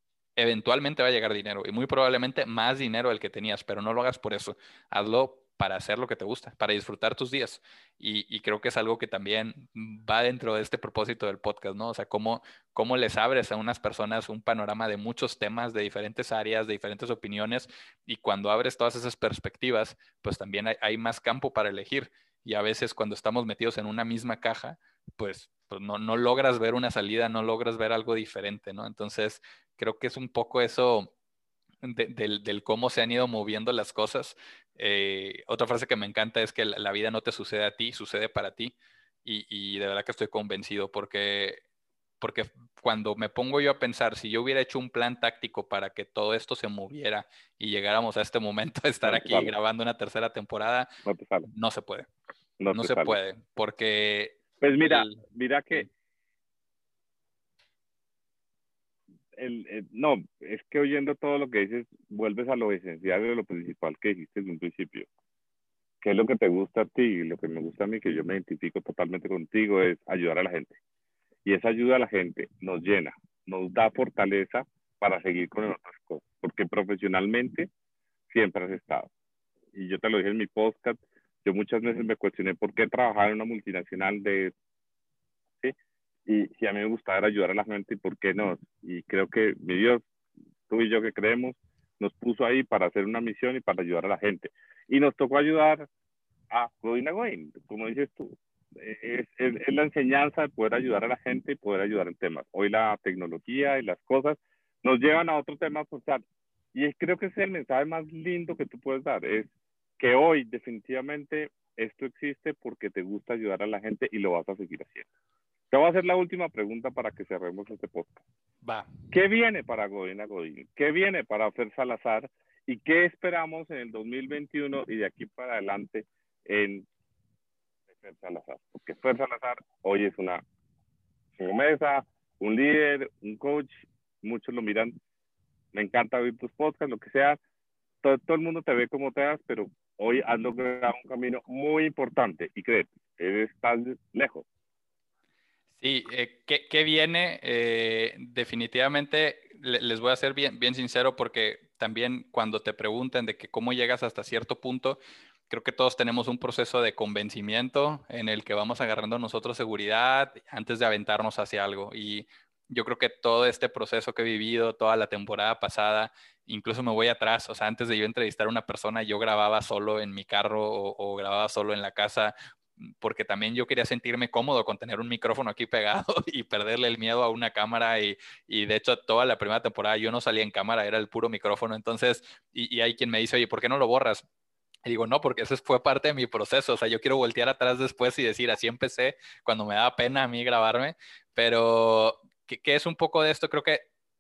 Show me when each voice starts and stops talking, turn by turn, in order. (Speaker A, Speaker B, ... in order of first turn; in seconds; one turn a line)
Speaker A: 0.4-31.1
Speaker A: 31.8-41.6
Speaker A: 42.2-50.9
Speaker B: 49.0-49.5
Speaker B: 51.1-51.5
Speaker A: 51.5-52.1
Speaker B: 52.6-53.2
Speaker A: 52.7-55.2
Speaker B: 54.6-55.9
Speaker B: 59.4-65.1
Speaker B: 66.0-70.8
Speaker B: 71.5-77.7
Speaker B: 78.3-79.1
Speaker B: 79.7-84.5
Speaker B: 86.3-90.0
Speaker B: 90.7-95.9
Speaker B: 96.5-115.1
Speaker B: 115.7-118.2
Speaker A: 118.6-118.9
Speaker B: 119.1-126.8
Speaker B: 127.9-130.4
Speaker B: 131.4-134.9
Speaker B: 135.7-137.4
Speaker B: 138.0-144.5
Speaker A: 145.8-155.0
Speaker A: 155.5-184.3
Speaker A: 184.9-193.8